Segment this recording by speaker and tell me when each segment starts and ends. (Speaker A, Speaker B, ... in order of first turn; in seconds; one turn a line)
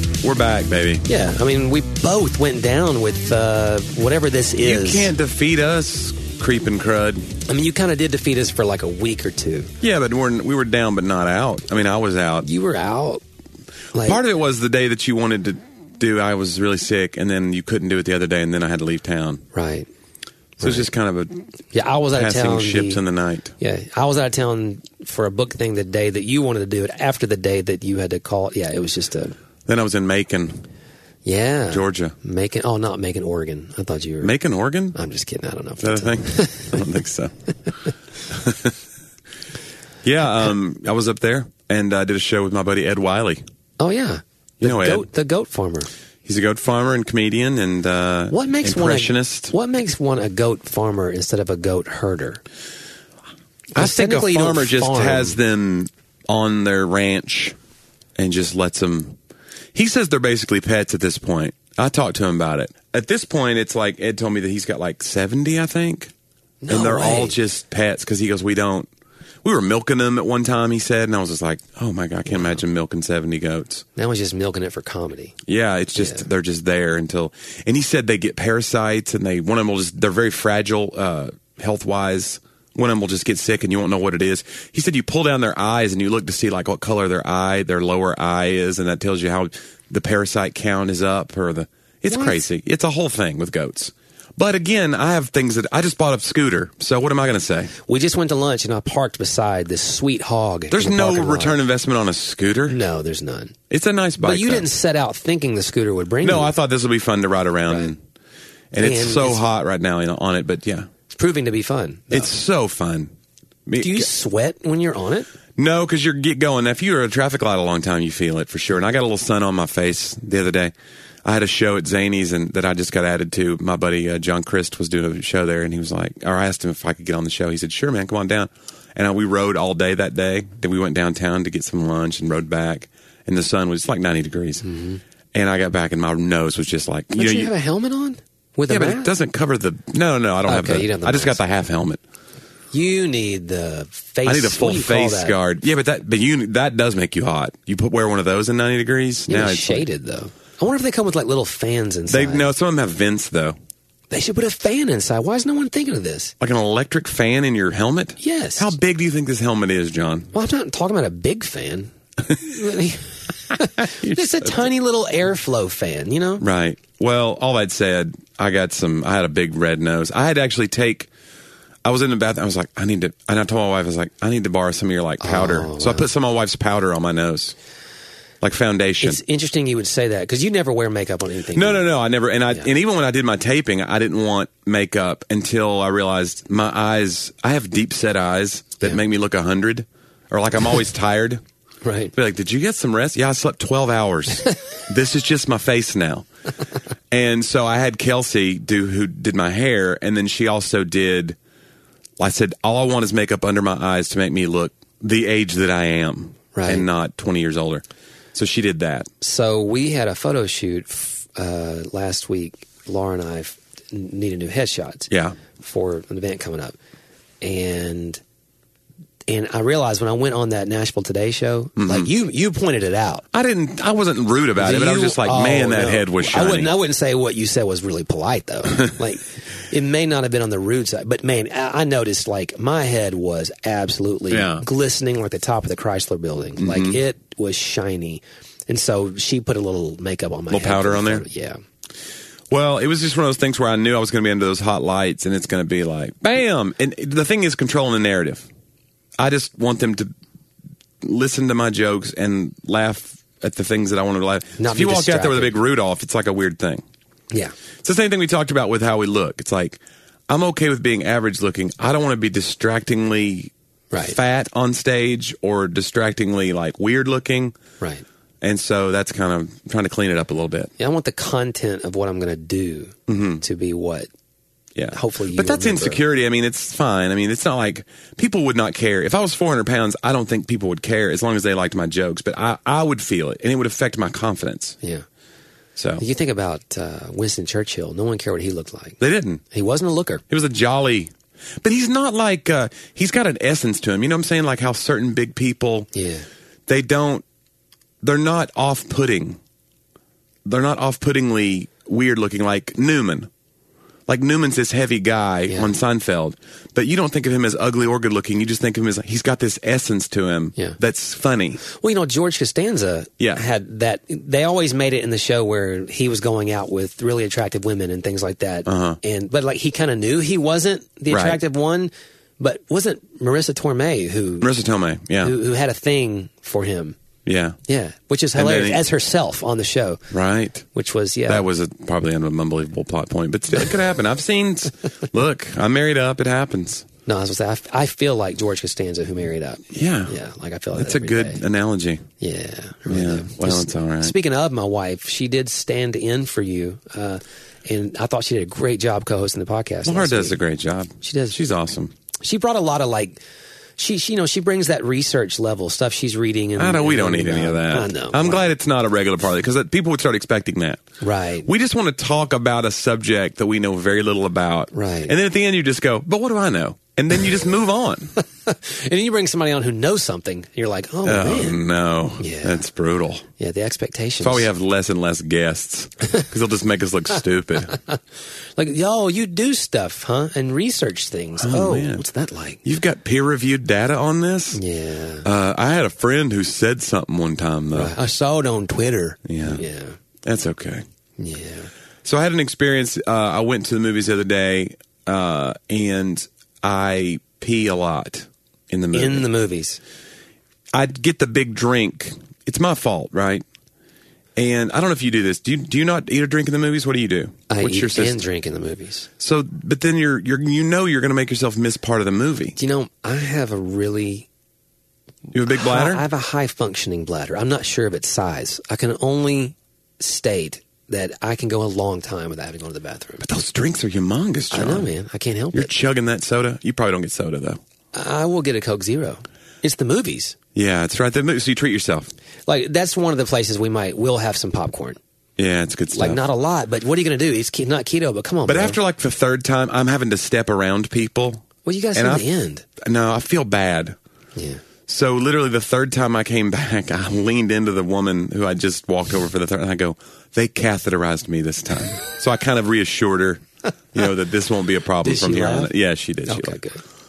Speaker A: 0.2-1.1
Speaker B: 1.1-5.1
Speaker A: 4.6-7.3
Speaker B: 7.5-9.7
Speaker A: 9.8-12.5
Speaker B: 12.4-13.2
Speaker B: 13.9-14.2
Speaker A: 14.0-19.4
Speaker B: 19.5-19.9
Speaker B: 20.6-20.9
Speaker A: 20.6-21.4
Speaker B: 21.7-23.0
Speaker A: 22.1-23.5
Speaker B: 23.6-29.4
Speaker A: 29.7-30.6
Speaker B: 31.2-34.3
Speaker A: 31.7-32.1
Speaker A: 34.2-35.0
Speaker B: 34.9-36.8
Speaker A: 35.8-37.3
Speaker A: 38.3-38.8
Speaker A: 40.0-43.4
Speaker B: 43.8-45.9
Speaker A: 44.6-45.1
Speaker A: 46.2-49.5
Speaker B: 48.3-52.4
Speaker B: 53.7-55.4
Speaker A: 53.8-57.6
Speaker A: 58.2-59.2
Speaker A: 59.7-66.1
Speaker B: 66.6-67.4
Speaker A: 66.7-68.9
Speaker A: 69.4-73.8
Speaker B: 74.0-75.4
Speaker A: 75.5-97.7
Speaker B: 76.0-76.2
Speaker B: 92.1-92.4
Speaker B: 97.8-101.6
Speaker A: 100.7-102.8
Speaker B: 102.7-103.5
Speaker A: 103.7-104.7
Speaker B: 104.2-106.5
Speaker A: 106.2-108.0
Speaker A: 108.7-110.9
Speaker B: 108.8-109.4
Speaker B: 111.1-112.3
Speaker A: 112.1-113.1
Speaker A: 113.7-114.1
Speaker B: 113.8-115.3
Speaker A: 115.6-120.7
Speaker A: 121.2-134.6
Speaker B: 134.6-135.0
Speaker A: 135.3-137.5
Speaker B: 137.2-139.1
Speaker A: 138.7-142.0
Speaker B: 140.5-141.4
Speaker B: 142.7-145.3
Speaker A: 144.3-149.9
Speaker B: 149.3-152.5
Speaker A: 152.1-153.6
Speaker B: 154.1-156.3
Speaker A: 156.4-160.3
Speaker B: 158.2-158.7
Speaker B: 160.3-166.4
Speaker A: 163.8-164.2
Speaker A: 166.4-171.1
Speaker A: 171.8-177.6
Speaker B: 175.2-176.1
Speaker A: 178.4-179.2
Speaker B: 179.0-181.9
Speaker A: 181.5-191.4
Speaker B: 191.8-192.1
Speaker A: 192.1-196.2
Speaker A: 197.1-201.4
Speaker A: 202.2-209.1
Speaker B: 206.6-206.9
Speaker B: 209.2-216.8
Speaker A: 215.1-215.4
Speaker B: 217.4-218.2
Speaker B: 219.3-223.3
Speaker A: 221.8-222.1
Speaker A: 223.3-226.7
Speaker B: 224.6-241.6
Speaker A: 234.3-234.7
Speaker A: 236.6-237.0
Speaker A: 240.5-241.2
Speaker A: 242.5-248.5
Speaker A: 249.2-250.1
Speaker A: 251.0-256.8
Speaker B: 254.6-255.5
Speaker A: 257.8-267.6
Speaker B: 263.9-264.2
Speaker A: 268.4-270.7
Speaker B: 270.8-274.1
Speaker A: 273.1-273.4
Speaker A: 274.8-284.8
Speaker B: 274.9-276.0
Speaker A: 285.8-286.0
Speaker B: 286.0-289.0
Speaker A: 289.0-289.4
Speaker B: 289.5-290.2
Speaker A: 290.3-295.9
Speaker B: 295.9-296.3
Speaker A: 296.7-297.2
Speaker A: 298.0-299.4
Speaker A: 300.4-303.3
Speaker A: 304.1-311.6
Speaker B: 311.6-324.5
Speaker A: 318.7-319.0
Speaker A: 321.1-321.4
Speaker A: 324.4-325.4
Speaker B: 325.2-327.0
Speaker A: 327.3-327.6
Speaker B: 327.7-330.0
Speaker A: 328.4-328.8
Speaker A: 330.1-330.7
Speaker B: 330.7-331.5
Speaker A: 331.3-336.9
Speaker B: 337.1-341.4
Speaker A: 339.7-340.1
Speaker A: 340.7-342.1
Speaker B: 342.2-350.4
Speaker A: 342.9-344.1
Speaker A: 349.9-351.9
Speaker B: 351.0-351.4
Speaker B: 352.2-353.2
Speaker B: 353.8-358.5
Speaker A: 356.6-360.8
Speaker B: 361.0-361.5
Speaker A: 361.4-368.1
Speaker B: 364.7-365.1
Speaker B: 368.4-371.6
Speaker A: 371.1-373.3
Speaker B: 372.2-372.6
Speaker B: 373.4-374.5
Speaker A: 374.2-377.8
Speaker B: 378.6-382.6
Speaker A: 381.4-382.0
Speaker A: 382.6-384.6
Speaker B: 384.5-385.3
Speaker A: 385.2-387.9
Speaker B: 387.7-390.0
Speaker A: 389.3-389.6
Speaker A: 390.2-390.9
Speaker B: 391.2-391.7
Speaker A: 392.1-399.3
Speaker B: 398.9-399.8
Speaker A: 400.7-403.4
Speaker A: 404.4-408.2
Speaker B: 407.5-409.1
Speaker A: 409.2-412.6
Speaker B: 412.6-414.3
Speaker A: 415.3-416.0
Speaker B: 415.5-423.2
Speaker A: 423.2-424.9
Speaker B: 424.5-425.7
Speaker A: 425.5-427.6
Speaker B: 427.9-430.4
Speaker A: 430.6-432.1
Speaker B: 432.5-435.0
Speaker A: 435.4-436.2
Speaker B: 435.9-438.8
Speaker A: 438.4-442.3
Speaker B: 441.6-442.7
Speaker A: 442.8-444.0
Speaker B: 444.4-444.6
Speaker A: 444.9-456.6
Speaker B: 455.0-455.7
Speaker B: 456.3-456.8